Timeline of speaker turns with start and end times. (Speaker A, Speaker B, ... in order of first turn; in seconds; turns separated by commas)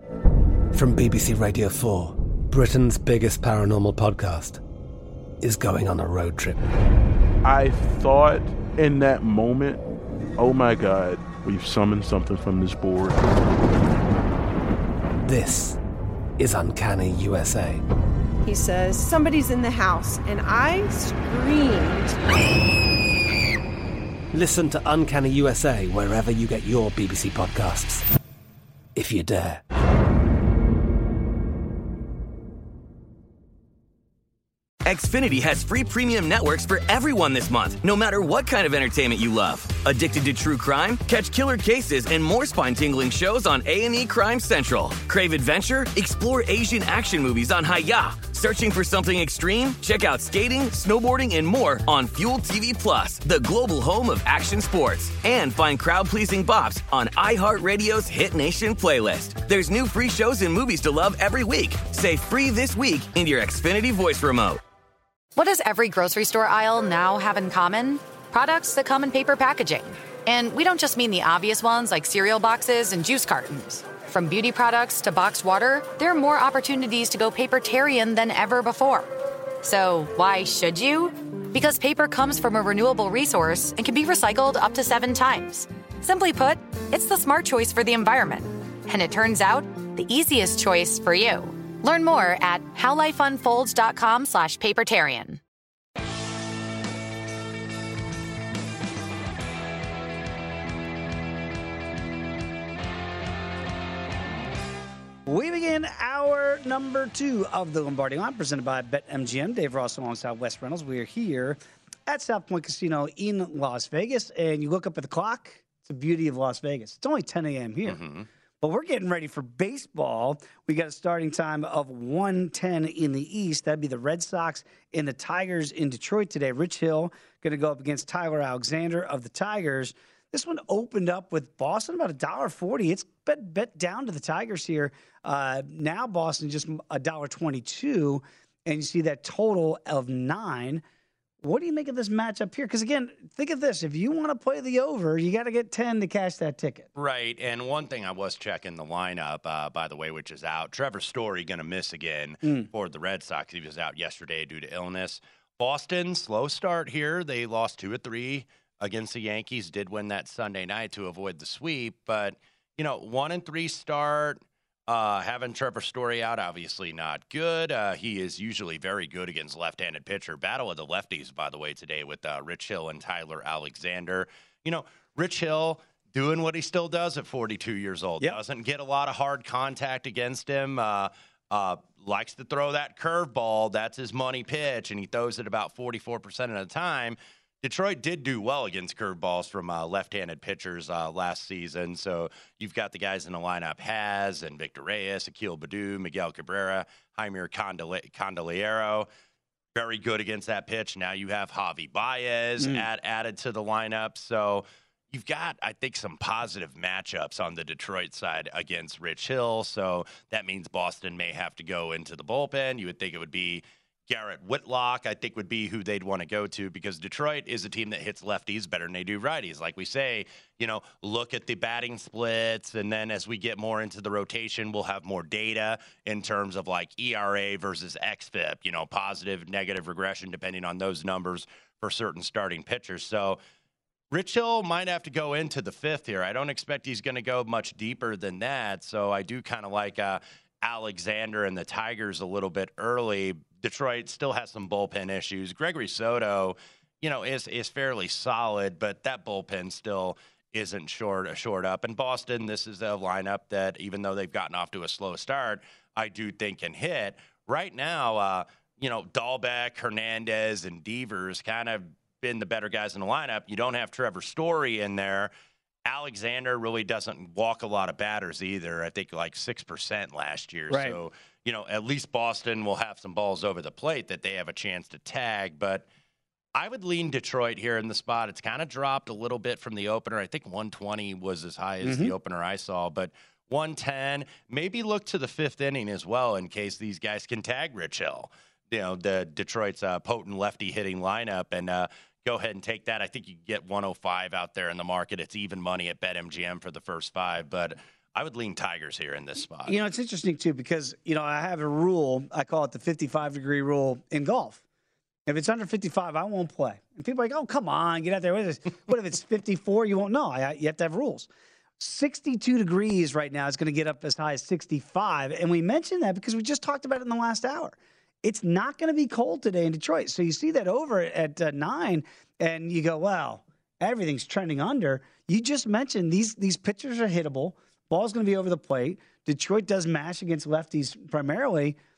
Speaker A: 0.7-4.6, Speaker A: 5.4-6.6, Speaker B: 7.4-9.8, Speaker B: 10.4-13.2, Speaker A: 15.2-15.8, Speaker A: 16.4-17.8, Speaker C: 18.4-22.1, Speaker A: 24.3-28.0, Speaker A: 28.9-29.6, Speaker D: 34.8-64.6, Speaker E: 65.3-95.4, Speaker F: 105.2-118.0, Speaker G: 117.8-118.2, Speaker F: 118.6-140.8, Speaker F: 141.4-146.9, Speaker G: 147.0-199.1, Speaker G: 199.7-233.4, Speaker F: 202.6-202.8, Speaker G: 234.1-265.3, Speaker G: 265.8-275.8, Speaker F: 270.7-271.0, Speaker G: 276.5-299.8, Speaker F: 281.8-282.1, Speaker F: 299.6-304.6, Speaker F: 305.2-331.8